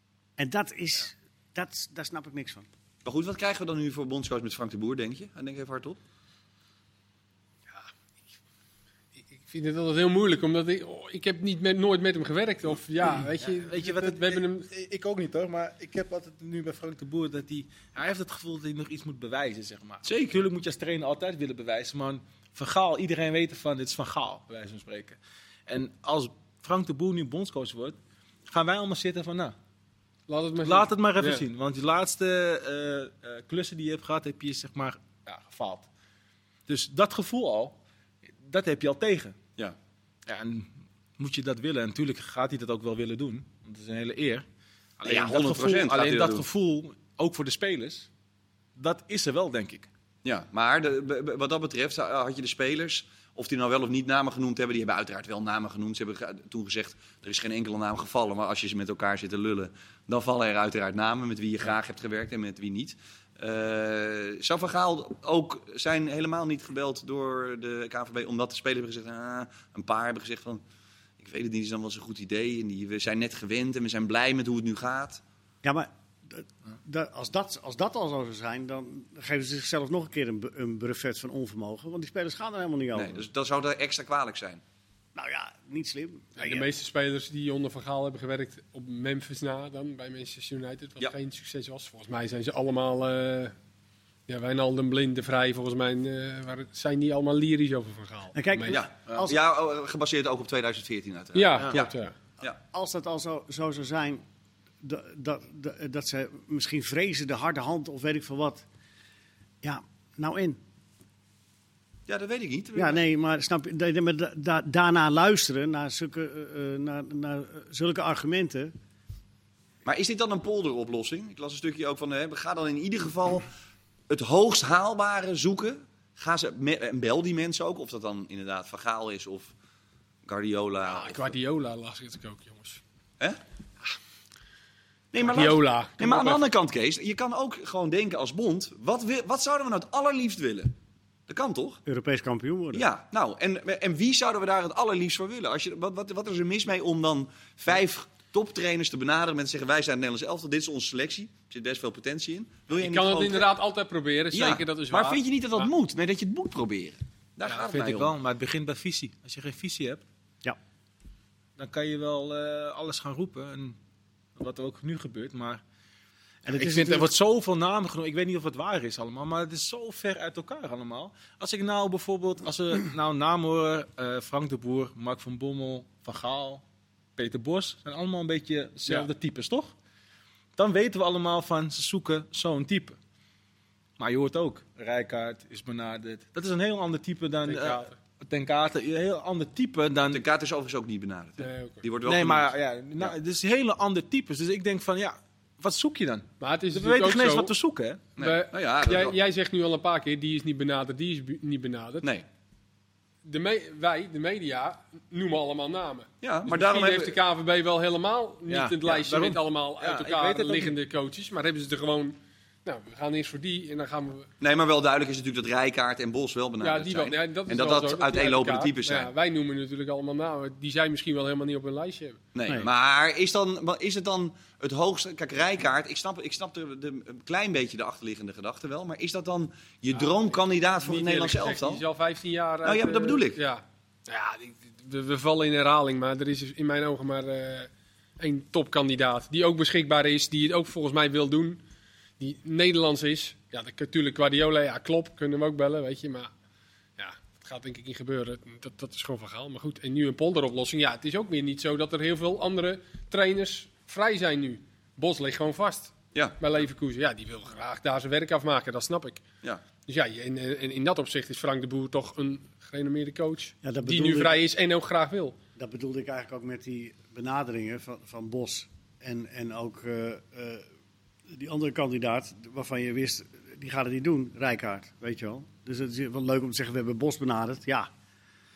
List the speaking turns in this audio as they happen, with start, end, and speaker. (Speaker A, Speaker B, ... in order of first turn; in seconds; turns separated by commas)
Speaker A: 0.4-2.7, Speaker B: 3.0-6.0, Speaker C: 9.4-14.7, Speaker D: 13.4-28.0, Speaker B: 20.0-20.4, Speaker D: 28.5-29.5, Speaker C: 30.3-31.4, Speaker D: 30.6-35.9, Speaker D: 36.7-37.8, Speaker D: 38.4-39.4, Speaker D: 40.2-44.5, Speaker D: 45.0-48.1, Speaker B: 45.0-46.4, Speaker D: 48.8-49.9, Speaker B: 50.2-70.6, Speaker B: 71.2-75.2, Speaker A: 75.6-83.2, Speaker B: 82.9-84.6, Speaker A: 85.1-86.7, Speaker C: 86.4-93.5, Speaker C: 94.3-98.8, Speaker A: 98.3-99.4, Speaker B: 98.7-102.6, Speaker C: 101.3-102.1, Speaker A: 102.6-104.2, Speaker A: 104.8-108.6, Speaker A: 109.6-110.6, Speaker B: 112.1-113.0, Speaker A: 112.7-118.7, Speaker B: 119.8-123.5, Speaker B: 124.1-129.5, Speaker B: 130.2-131.3, Speaker C: 130.8-132.8, Speaker B: 135.1-140.7, Speaker C: 135.2-136.4, Speaker B: 141.3-141.8, Speaker A: 141.8-142.8, Speaker B: 142.7-153.5, Speaker C: 152.7-155.2, Speaker B: 154.3-158.1, Speaker D: 157.5-160.0, Speaker D: 161.6-163.8, Speaker D: 164.3-165.6, Speaker A: 166.4-167.1, Speaker D: 166.5-176.6, Speaker D: 177.2-179.7, Speaker D: 180.6-183.0, Speaker D: 184.0-190.2, Speaker C: 187.4-187.9, Speaker B: 190.1-193.1, Speaker C: 191.4-191.8, Speaker D: 192.0-198.0, Speaker C: 196.4-197.5, Speaker B: 198.2-199.2, Speaker C: 198.2-202.1, Speaker C: 203.2-214.3, Speaker B: 206.2-207.2, Speaker D: 208.5-210.8, Speaker B: 214.4-219.1, Speaker C: 216.6-222.2, Speaker B: 222.3-231.8, Speaker C: 229.9-241.6, Speaker B: 232.6-233.4, Speaker C: 242.2-246.3, Speaker C: 247.0-259.2, Speaker C: 259.9-265.4, Speaker A: 263.6-264.4, Speaker A: 265.6-270.6, Speaker A: 271.3-277.9